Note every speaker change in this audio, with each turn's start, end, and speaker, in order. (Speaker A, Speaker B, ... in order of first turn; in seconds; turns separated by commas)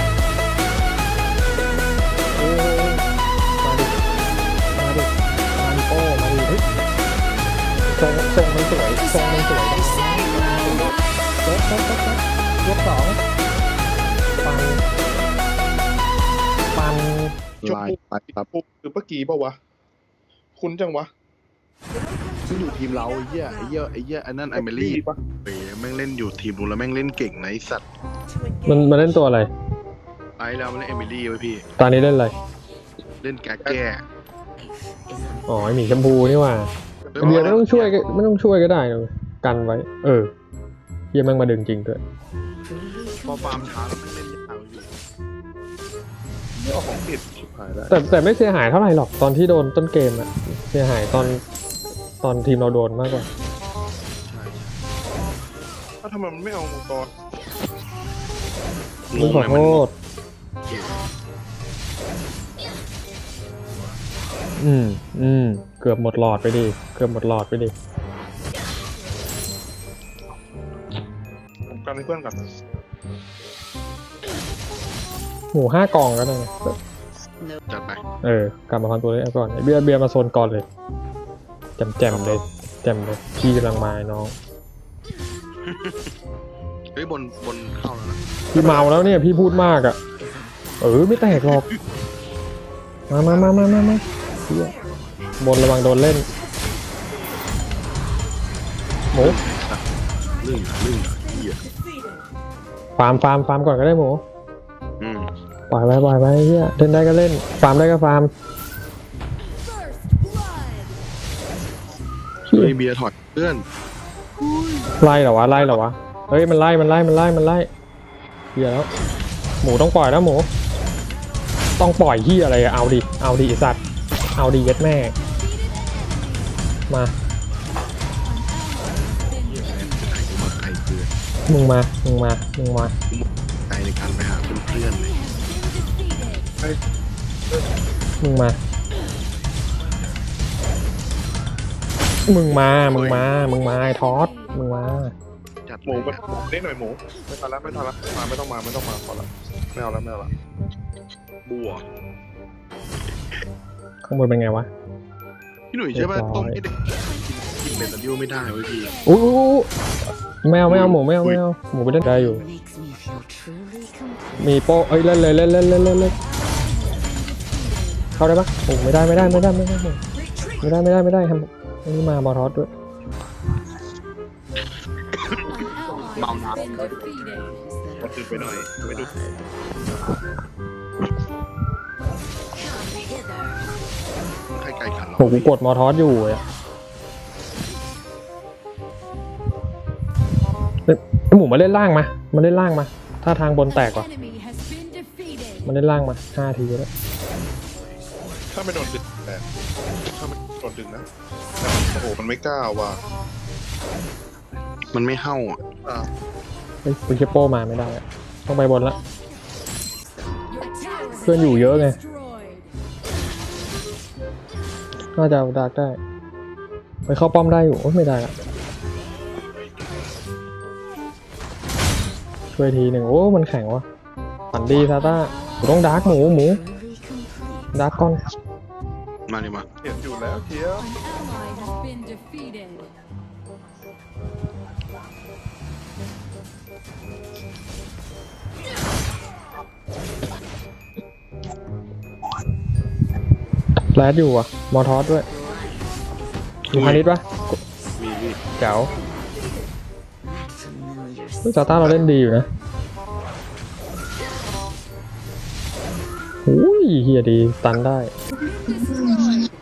Speaker A: 2.3-3.0, Speaker A: 3.6-4.0, Speaker A: 4.7-6.6, Speaker A: 8.0-13.2, Speaker A: 14.4-14.8, Speaker A: 16.7-17.3, Speaker B: 17.6-18.4, Speaker C: 17.6-19.6, Speaker C: 20.6-21.1, Speaker B: 22.5-27.8, Speaker C: 24.5-25.2, Speaker A: 28.7-29.5, Speaker B: 30.4-31.6, Speaker A: 31.8-32.3, Speaker B: 33.2-34.0, Speaker D: 34.6-36.2, Speaker A: 35.5-40.3, Speaker B: 37.1-38.0, Speaker C: 37.1-37.6, Speaker A: 41.1-42.0, Speaker D: 42.7-43.9, Speaker B: 43.3-44.9, Speaker C: 46.6-48.0, Speaker A: 47.9-51.4, Speaker A: 52.2-53.3, Speaker B: 54.2-54.7, Speaker C: 56.0-57.1, Speaker B: 59.1-59.8, Speaker A: 59.2-59.9, Speaker B: 60.7-61.0, Speaker A: 64.6-67.7, Speaker C: 71.7-72.6, Speaker A: 75.5-76.8, Speaker B: 77.7-78.0, Speaker A: 78.2-80.6, Speaker A: 81.8-84.3, Speaker B: 82.1-82.4, Speaker B: 85.6-86.1, Speaker B: 86.9-89.2, Speaker A: 88.5-90.0, Speaker D: 89.3-91.0, Speaker A: 90.8-91.7, Speaker B: 91.3-91.6, Speaker A: 93.1-94.8, Speaker B: 93.2-93.6, Speaker A: 95.4-96.2, Speaker A: 99.1-99.4, Speaker B: 99.1-99.8, Speaker B: 100.4-101.6, Speaker A: 103.0-104.2, Speaker B: 105.0-105.3, Speaker A: 105.7-108.3, Speaker E: 109.8-110.9, Speaker A: 112.5-112.7, Speaker B: 112.5-113.7, Speaker B: 114.4-114.9, Speaker A: 115.0-117.7, Speaker A: 118.5-118.9, Speaker A: 119.6-120.5, Speaker A: 121.8-123.8, Speaker A: 124.3-125.2, Speaker E: 125.7-126.5, Speaker E: 128.5-129.4, Speaker B: 129.5-131.1, Speaker A: 131.5-132.9, Speaker B: 133.1-135.2, Speaker E: 134.9-136.4, Speaker A: 138.2-138.6, Speaker A: 142.3-145.1, Speaker B: 142.8-143.3, Speaker B: 145.7-146.2, Speaker C: 145.8-150.3, Speaker B: 147.6-148.0, Speaker B: 151.5-151.8, Speaker A: 154.0-154.7, Speaker B: 155.7-158.9, Speaker A: 155.9-156.6, Speaker A: 159.0-159.7, Speaker A: 160.4-162.4, Speaker B: 160.7-161.4, Speaker D: 162.0-164.6, Speaker A: 164.4-166.2, Speaker E: 166.4-168.1, Speaker A: 168.2-170.0, Speaker B: 169.1-169.5, Speaker A: 170.6-172.7, Speaker B: 175.1-175.5, Speaker D: 175.5-179.5, Speaker B: 176.2-176.9, Speaker C: 178.0-179.1, Speaker D: 182.6-183.6, Speaker B: 184.5-185.5, Speaker A: 185.2-186.4, Speaker A: 190.9-194.1, Speaker E: 194.1-195.6, Speaker A: 195.7-196.9, Speaker C: 198.5-199.4, Speaker C: 200.1-201.1, Speaker C: 201.6-203.0, Speaker B: 204.9-205.6, Speaker C: 205.7-206.1, Speaker A: 206.8-209.0, Speaker D: 210.2-210.5, Speaker E: 210.6-211.1, Speaker A: 211.2-212.0, Speaker E: 211.6-212.7, Speaker A: 215.2-216.0, Speaker A: 217.1-218.3, Speaker A: 222.5-223.8, Speaker A: 224.5-226.6, Speaker E: 225.3-225.6, Speaker D: 225.8-227.8, Speaker A: 227.7-228.2, Speaker B: 229.3-229.7, Speaker C: 229.8-230.9, Speaker E: 230.8-232.9, Speaker A: 243.9-245.3, Speaker D: 245.3-246.2, Speaker B: 246.7-247.0, Speaker A: 246.7-247.6, Speaker B: 248.0-248.4, Speaker A: 248.6-248.9, Speaker D: 250.2-251.9, Speaker A: 251.5-252.5, Speaker A: 256.5-258.1, Speaker E: 258.5-259.5